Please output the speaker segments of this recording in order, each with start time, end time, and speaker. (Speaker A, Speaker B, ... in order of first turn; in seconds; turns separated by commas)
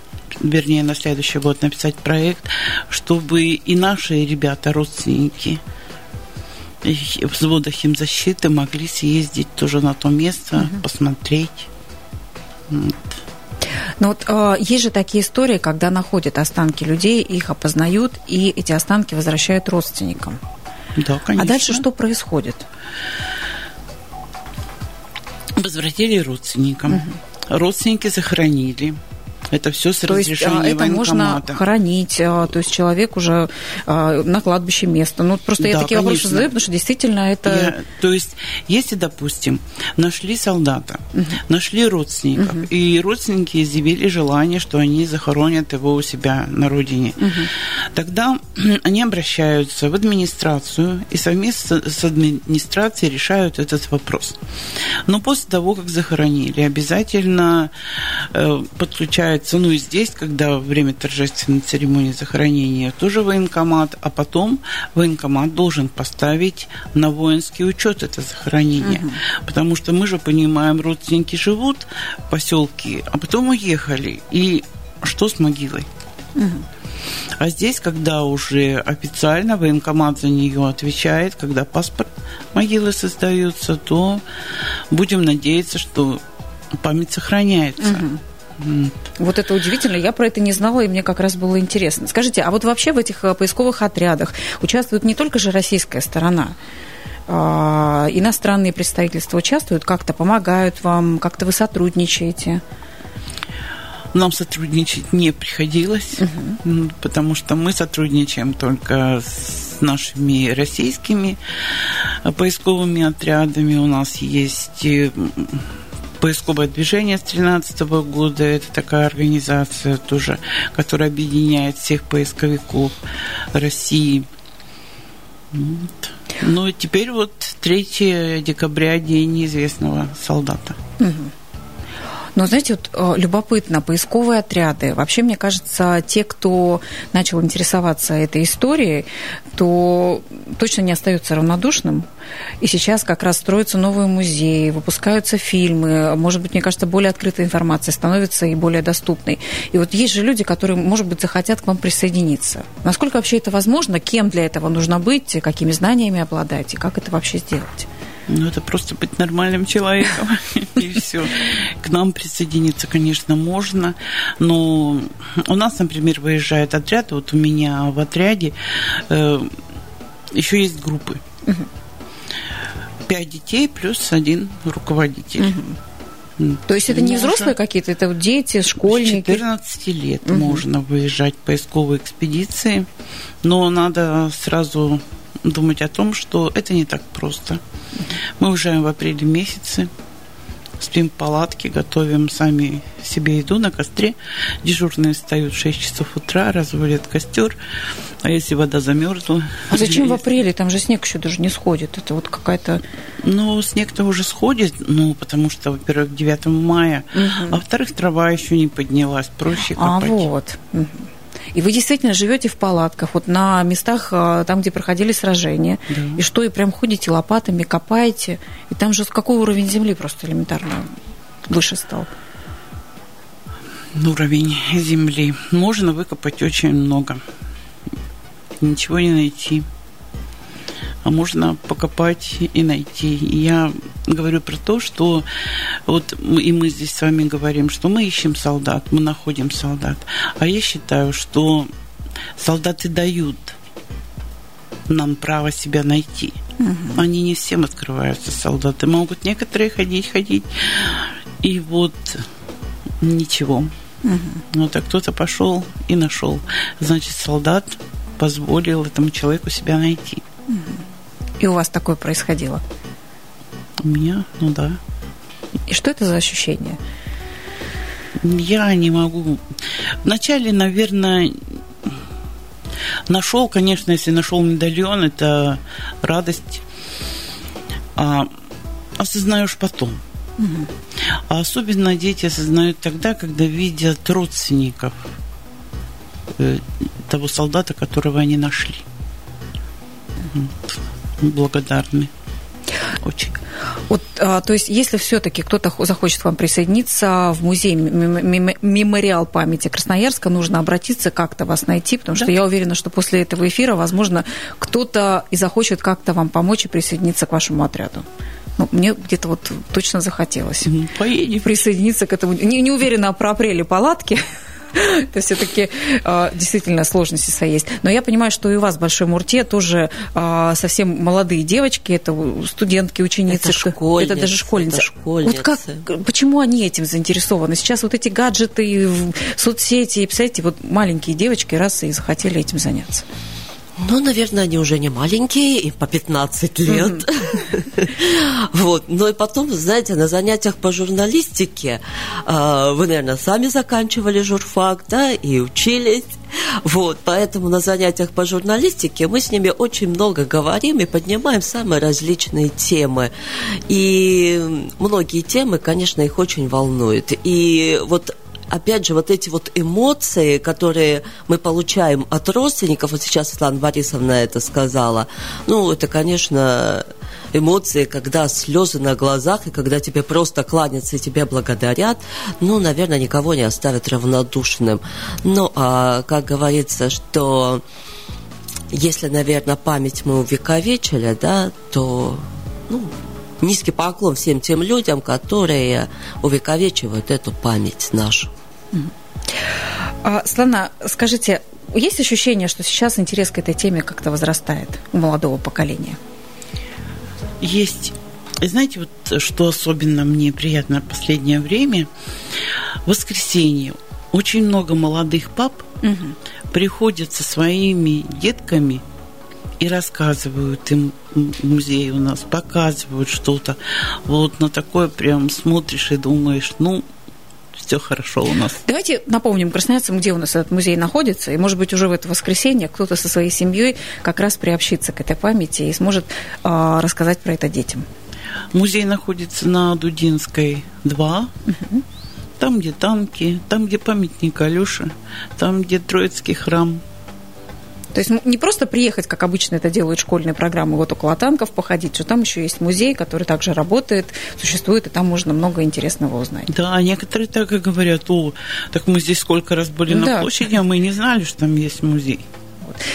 Speaker A: 0.4-5.6, Speaker A: 6.8-11.7, Speaker A: 12.7-13.1, Speaker B: 14.0-20.4, Speaker A: 20.9-21.8, Speaker B: 21.4-22.6, Speaker A: 25.6-29.0, Speaker A: 29.5-31.6, Speaker B: 30.1-37.7, Speaker A: 35.6-36.5, Speaker A: 37.5-54.4, Speaker B: 42.4-42.7, Speaker B: 47.2-47.5, Speaker A: 55.0-75.9, Speaker B: 68.8-69.2, Speaker B: 76.3-76.6, Speaker A: 77.4-84.2, Speaker A: 84.9-86.2, Speaker A: 86.7-88.0, Speaker B: 87.8-88.2, Speaker A: 88.6-88.9, Speaker B: 89.2-96.6, Speaker B: 97.3-102.6, Speaker A: 104.1-115.7, Speaker B: 106.2-106.5, Speaker A: 116.2-122.9, Speaker A: 123.5-124.2, Speaker A: 125.5-130.8, Speaker B: 131.0-131.3, Speaker B: 132.3-142.1, Speaker B: 142.6-157.9, Speaker A: 158.3-169.6, Speaker A: 170.3-171.2, Speaker A: 173.1-175.5, Speaker B: 175.4-175.8, Speaker A: 176.4-177.5, Speaker B: 176.7-179.4, Speaker A: 178.8-182.9, Speaker B: 180.2-180.6, Speaker A: 183.4-187.6, Speaker A: 188.4-189.9, Speaker A: 190.8-197.6, Speaker A: 198.2-200.2, Speaker B: 199.7-202.8, Speaker A: 203.2-210.3, Speaker B: 207.1-207.6, Speaker B: 209.7-220.9, Speaker A: 215.9-216.2, Speaker B: 221.5-222.1, Speaker A: 223.9-227.2, Speaker A: 228.6-229.7, Speaker A: 231.0-241.7, Speaker A: 242.4-243.6, Speaker A: 244.9-246.4, Speaker B: 246.6-247.0, Speaker A: 246.9-252.2, Speaker A: 253.0-253.7, Speaker B: 254.0-254.4, Speaker A: 254.5-260.2, Speaker B: 260.5-260.8, Speaker B: 261.4-262.6, Speaker A: 263.8-264.8, Speaker B: 265.7-266.8, Speaker A: 268.2-269.4, Speaker A: 270.0-272.0, Speaker A: 273.1-276.6, Speaker A: 277.9-278.3, Speaker A: 279.0-280.0, Speaker B: 280.4-280.6, Speaker A: 281.3-285.1, Speaker A: 286.4-288.9, Speaker A: 290.3-292.1, Speaker A: 293.0-293.4, Speaker B: 293.9-308.1, Speaker B: 308.6-310.7, Speaker A: 310.6-311.6, Speaker B: 311.4-333.0, Speaker C: 323.3-325.8, Speaker C: 333.8-353.1, Speaker C: 353.7-377.6, Speaker C: 378.7-388.3, Speaker B: 390.0-396.0, Speaker A: 397.4-401.9, Speaker A: 402.8-405.7, Speaker B: 405.8-406.1, Speaker A: 406.5-408.8, Speaker A: 409.6-416.8, Speaker A: 417.5-418.6, Speaker B: 418.6-427.8, Speaker A: 428.5-431.3, Speaker B: 431.5-431.8, Speaker A: 432.4-436.8, Speaker B: 437.9-446.5, Speaker A: 446.5-452.2, Speaker B: 449.9-450.4